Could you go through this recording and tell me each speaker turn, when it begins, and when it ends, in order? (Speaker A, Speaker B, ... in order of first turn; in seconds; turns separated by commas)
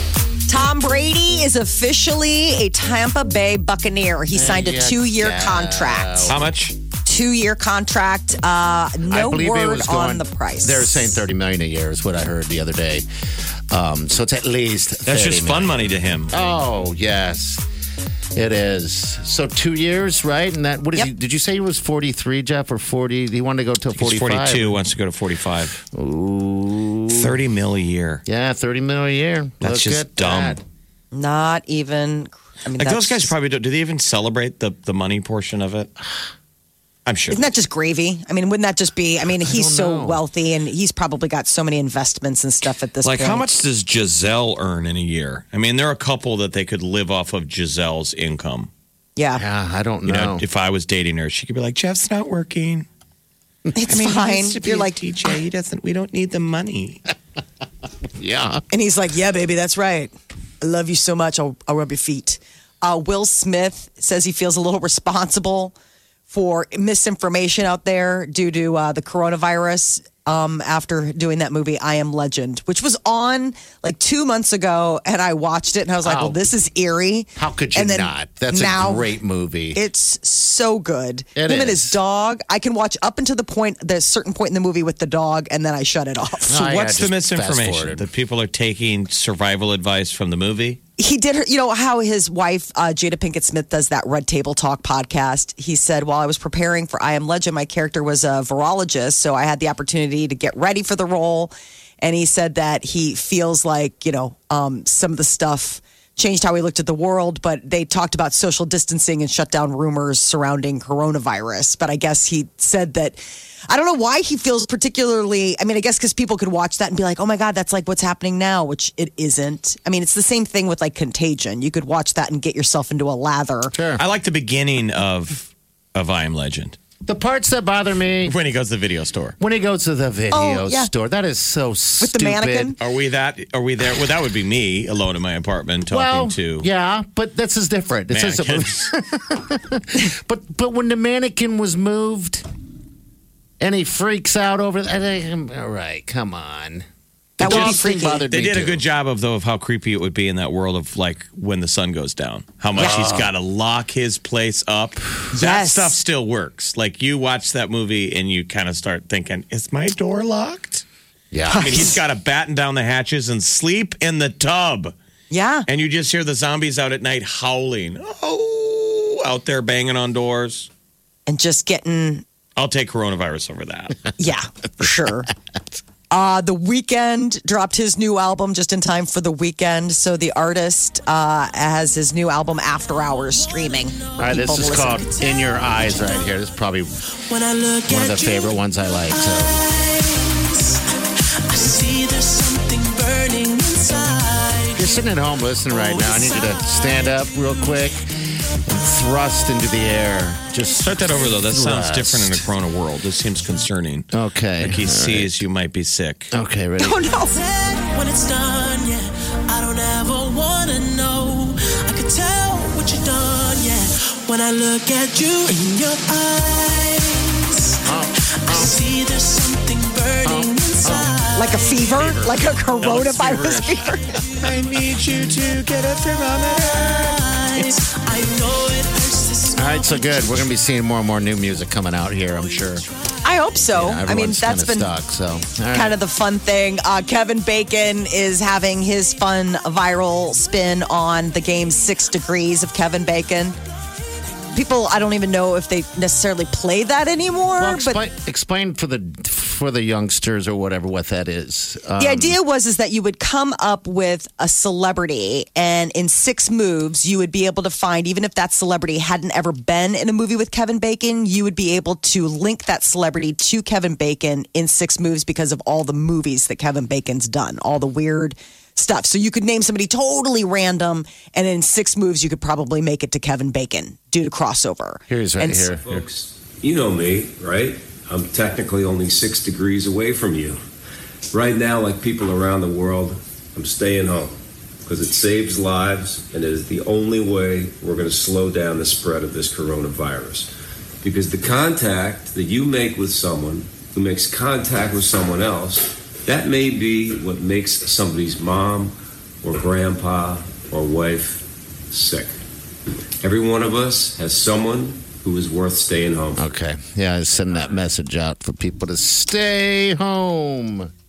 Speaker A: 0.5-6.3, Speaker B: 4.3-6.4, Speaker C: 6.3-6.8, Speaker A: 7.0-11.0, Speaker B: 9.1-13.1, Speaker B: 13.7-17.6, Speaker C: 15.1-16.3, Speaker B: 18.3-24.8, Speaker C: 24.0-25.8, Speaker B: 25.7-27.4, Speaker C: 27.1-28.2, Speaker B: 28.2-30.6, Speaker C: 29.6-30.6, Speaker A: 31.1-33.3, Speaker C: 32.8-35.9, Speaker C: 37.0-37.5, Speaker A: 37.3-43.5, Speaker B: 39.3-40.2, Speaker C: 43.0-48.7, Speaker A: 49.1-49.4, Speaker B: 49.4-50.4, Speaker C: 50.0-52.9, Speaker A: 53.7-55.0, Speaker C: 53.9-57.0, Speaker B: 58.2-58.6, Speaker A: 58.7-65.7, Speaker A: 66.3-79.1, Speaker B: 76.0-76.5, Speaker B: 77.3-79.8, Speaker A: 79.7-86.6, Speaker B: 81.3-82.0, Speaker B: 86.5-88.1, Speaker C: 86.5-90.8, Speaker A: 91.0-123.7, Speaker B: 123.7-124.0, Speaker C: 124.0-126.8, Speaker B: 127.0-128.3, Speaker C: 128.2-129.3, Speaker B: 129.4-132.8, Speaker A: 130.3-130.9, Speaker A: 132.0-132.8, Speaker C: 132.8-136.7, Speaker B: 135.9-142.4, Speaker C: 138.1-138.9, Speaker B: 143.6-146.8, Speaker B: 147.4-148.8, Speaker A: 147.4-148.2, Speaker C: 147.4-160.8, Speaker B: 152.7-153.3, Speaker A: 155.3-155.9, Speaker B: 161.3-161.9, Speaker A: 161.5-162.0, Speaker C: 161.5-164.9, Speaker A: 165.3-165.7, Speaker C: 165.7-170.7, Speaker A: 171.3-172.2, Speaker C: 172.6-173.9, Speaker A: 174.2-175.3, Speaker A: 176.1-185.0, Speaker D: 184.1-186.3, Speaker B: 184.2-186.9, Speaker D: 187.3-195.0, Speaker B: 187.9-189.5, Speaker B: 194.8-198.0, Speaker D: 195.7-197.9, Speaker B: 198.7-202.4, Speaker C: 200.8-204.1, Speaker B: 204.1-205.4, Speaker C: 204.6-206.3, Speaker B: 206.3-206.9, Speaker A: 206.8-207.4, Speaker D: 207.3-222.1, Speaker B: 217.8-218.7, Speaker B: 220.2-221.1, Speaker A: 221.3-224.0, Speaker C: 221.9-223.8, Speaker D: 224.1-224.5, Speaker C: 224.4-227.2, Speaker D: 226.5-230.5, Speaker B: 229.6-232.8, Speaker D: 232.2-233.3, Speaker A: 233.2-234.9, Speaker B: 233.7-236.0, Speaker A: 235.7-243.6, Speaker A: 244.5-248.0, Speaker B: 247.6-252.4, Speaker A: 252.0-275.7, Speaker B: 275.1-276.1, Speaker E: 275.8-280.6, Speaker E: 281.3-290.5, Speaker E: 291.0-302.4, Speaker E: 303.2-306.4, Speaker B: 306.4-310.9